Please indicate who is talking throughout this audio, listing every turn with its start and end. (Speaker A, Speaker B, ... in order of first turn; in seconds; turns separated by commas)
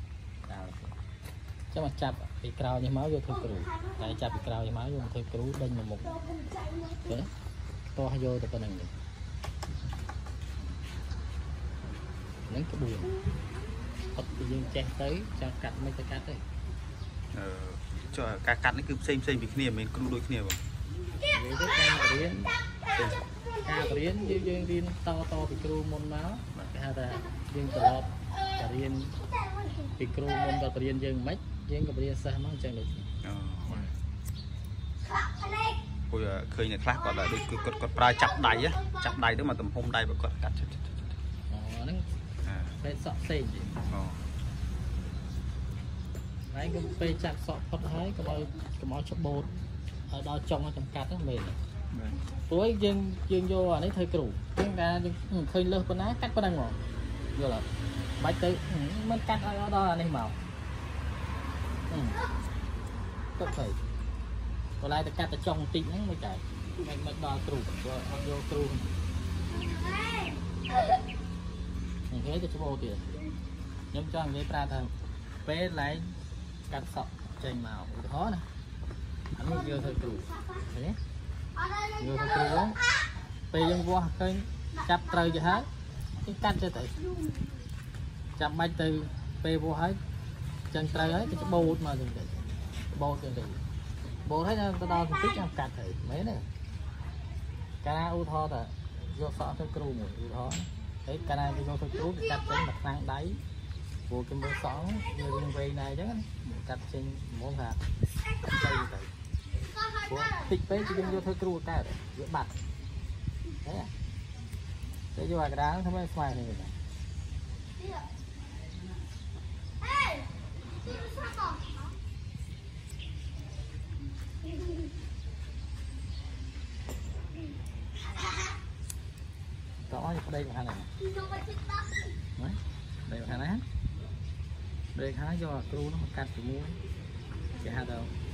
Speaker A: 0.4-0.9, Speaker A: 1.7-6.2, Speaker B: 3.5-4.3, Speaker B: 6.1-7.1, Speaker A: 7.0-7.3, Speaker A: 7.9-8.9, Speaker A: 12.5-13.2, Speaker A: 14.1-16.4, Speaker C: 17.3-20.6, Speaker A: 21.3-22.6, Speaker B: 22.9-23.6, Speaker A: 23.6-29.1, Speaker B: 29.2-29.9, Speaker A: 30.0-33.1, Speaker C: 33.2-33.9, Speaker A: 33.7-33.9, Speaker B: 35.0-35.8, Speaker C: 36.1-41.1, Speaker B: 37.1-39.1, Speaker A: 41.5-42.1, Speaker C: 42.4-42.8, Speaker A: 42.8-43.8, Speaker C: 43.9-44.2, Speaker A: 46.5-49.5, Speaker A: 50.1-56.8, Speaker A: 57.3-57.7, Speaker A: 58.2-60.4, Speaker A: 61.9-62.2, Speaker A: 63.4-63.8, Speaker A: 64.8-68.9, Speaker B: 69.5-70.4, Speaker A: 72.1-73.2, Speaker A: 73.9-74.9, Speaker A: 75.4-76.1, Speaker A: 76.7-78.4, Speaker A: 79.3-81.0, Speaker B: 79.4-80.7, Speaker B: 81.5-83.0, Speaker A: 82.0-82.8, Speaker A: 83.5-85.7, Speaker B: 84.7-85.6, Speaker A: 86.2-86.9, Speaker B: 87.0-87.6, Speaker A: 88.4-90.0, Speaker A: 90.7-93.6, Speaker A: 94.2-96.5, Speaker A: 97.8-103.4, Speaker A: 104.1-107.8, Speaker A: 108.4-109.1, Speaker B: 109.6-111.2, Speaker A: 110.1-112.5, Speaker A: 113.6-113.9, Speaker A: 115.1-116.7, Speaker B: 117.8-118.0, Speaker B: 119.8-120.3, Speaker B: 120.8-121.8, Speaker A: 129.9-130.9, Speaker B: 131.0-132.1, Speaker A: 132.4-133.6, Speaker A: 134.9-136.8, Speaker A: 137.6-138.1